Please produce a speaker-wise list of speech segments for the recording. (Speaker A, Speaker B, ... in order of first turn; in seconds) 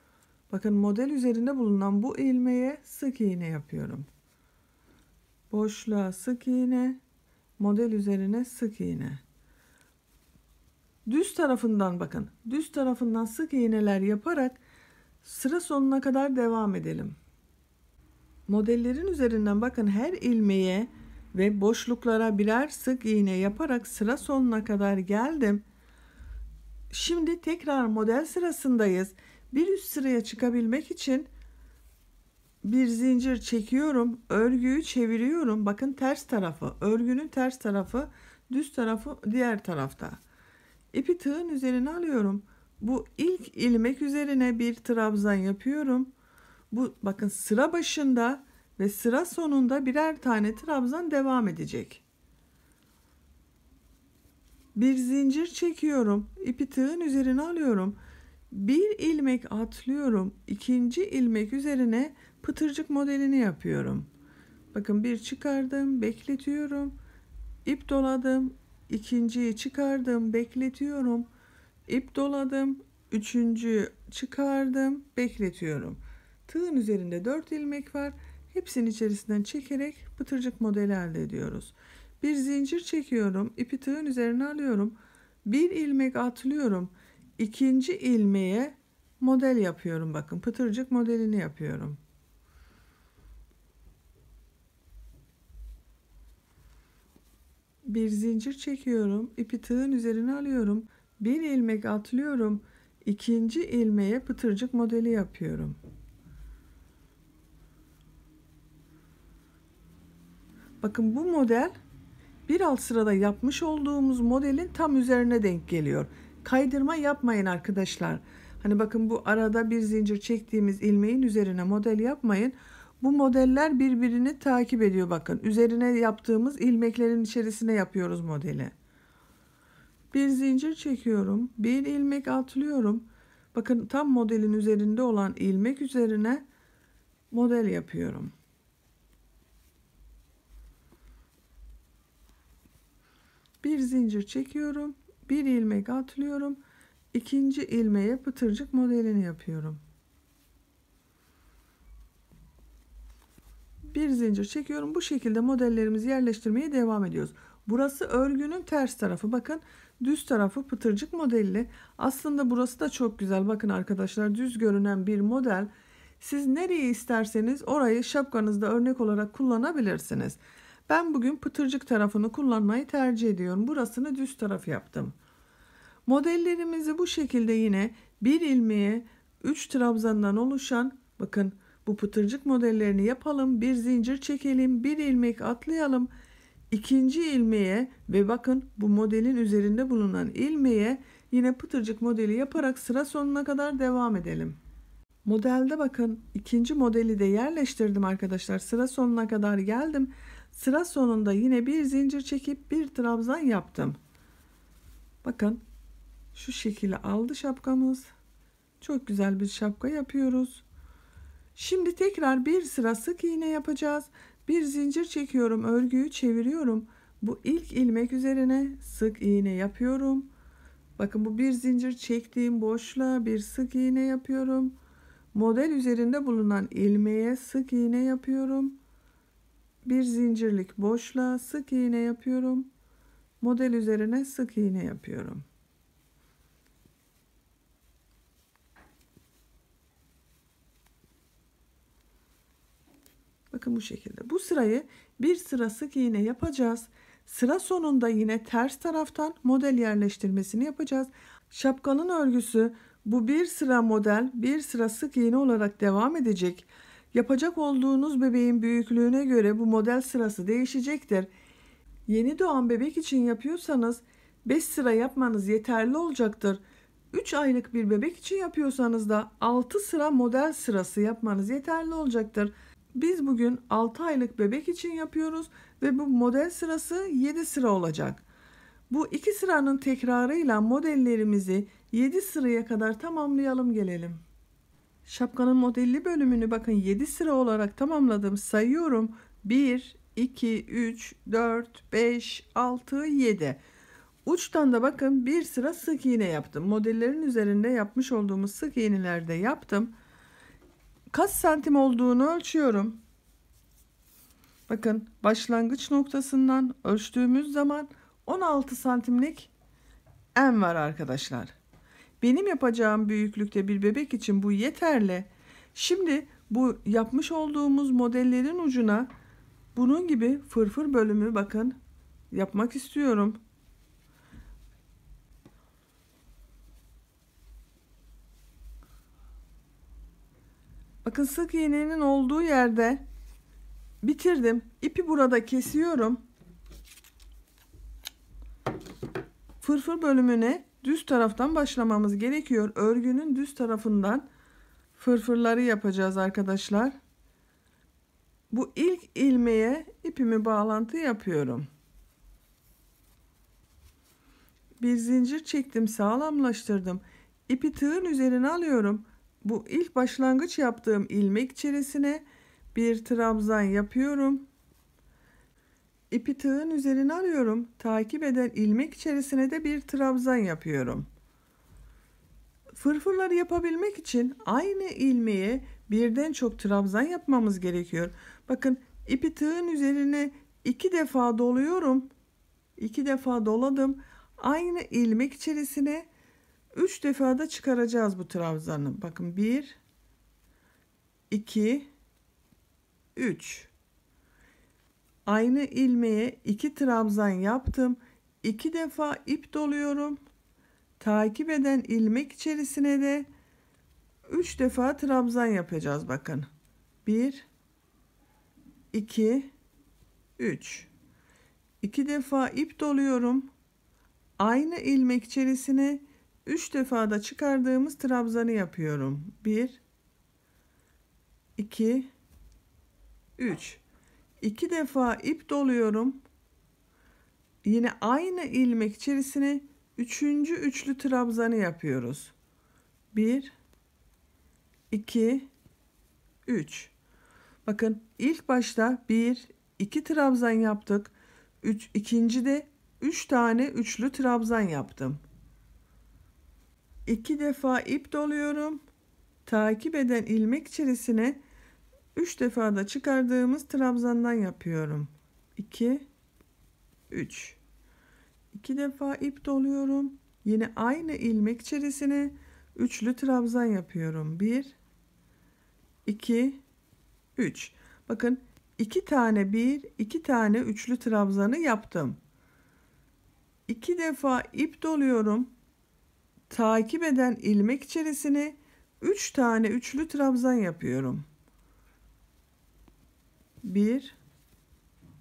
Speaker A: 0.5-4.1, 5.5-7.0, 7.6-9.2, 11.1-14.6, 15.2-17.2, 18.5-25.6, 26.9-31.3, 32.6-40.2, 40.9-46.1, 46.7-52.0, 54.8-58.0, 58.5-64.1, 64.7-67.0, 67.7-71.3, 71.9-92.0, 97.9-105.8, 110.8-111.7, 112.5-128.7, 130.1-136.4, 137.3-138.3, 143.6-146.6, 147.1-149.8, 153.9-165.7, 166.2-175.2, 176.1-186.1, 186.7-194.6, 195.2-204.0, 205.2-205.6, 206.3-208.1, 208.8-210.7, 211.6-220.3, 221.0-224.8, 225.3-228.8, 229.8-232.7, 233.4-235.4, 243.5-261.3, 262.1-266.6, 267.1-278.2, 278.9-284.2, 285.1-293.6, 294.2-299.9, 301.1-303.0, 304.7-309.5, 310.4-311.5, 312.2-319.1, 319.8-321.8, 322.3-323.4, 331.0-333.0, 334.0-336.2, 339.6-344.3, 345.0-346.9, 348.5-351.7, 354.8-364.4, 366.1-371.1, 372.7-382.1, 382.8-386.1, 386.7-389.8, 391.3-391.9, 393.2-393.7, 395.3-400.2, 401.0-403.3, 404.3-406.5, 407.1-407.5, 408.9-409.5, 410.4-410.9, 411.8-413.5, 414.4-419.8, 421.6-422.1, 423.4-423.8, 424.4-426.2, 427.6-432.3, 433.1-433.6, 434.9-435.5, 436.5-436.9, 437.6-445.2, 447.1-448.8, 449.5-451.4, 452.1-456.1, 457.1-457.6, 458.5-464.8, 466.1-466.6, 467.4-472.2, 473.7-475.5, 476.5-481.2, 483.6-484.2